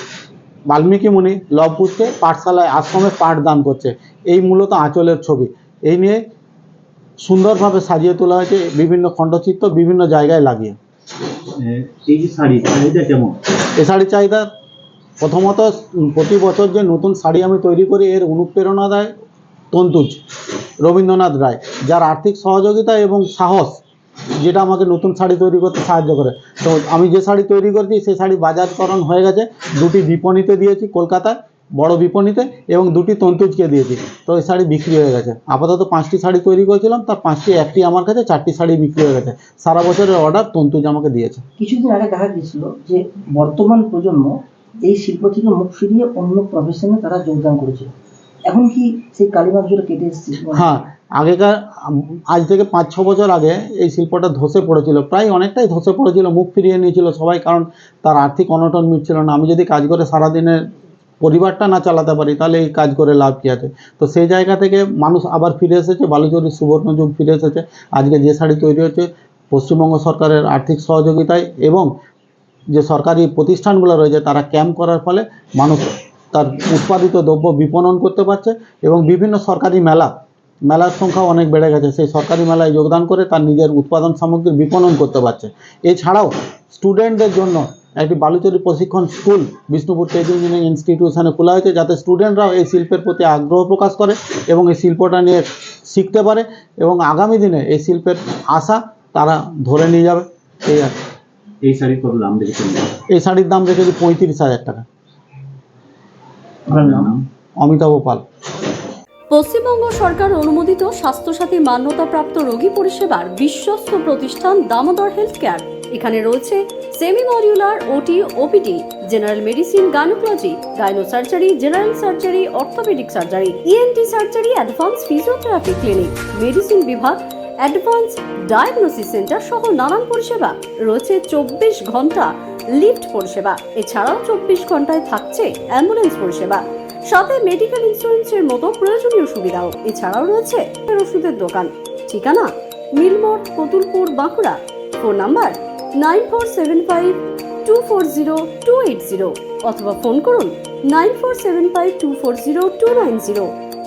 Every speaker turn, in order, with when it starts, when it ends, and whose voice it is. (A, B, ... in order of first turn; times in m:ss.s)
0:00.7-0:06.2 A
0:07.2-0:10.8 A
0:11.6-0:13.4 B
0:13.8-0:14.5 A
0:15.2-0:19.1 A
0:19.7-0:20.2 A
0:20.8-0:23.8 A
0:24.4-0:41.4 A
0:41.6-0:47.9 C
0:48.5-0:50.7 C
0:50.5-1:00.6 A
1:01.2-1:11.9 A
1:12.7-1:20.1 A
1:20.7-1:40.9 A
1:41.6-1:43.0 B
1:43.1-1:44.8 A
1:46.7-1:47.0 C
1:46.8-1:47.1 B
1:47.6-1:48.2 A
1:49.3-2:33.5 D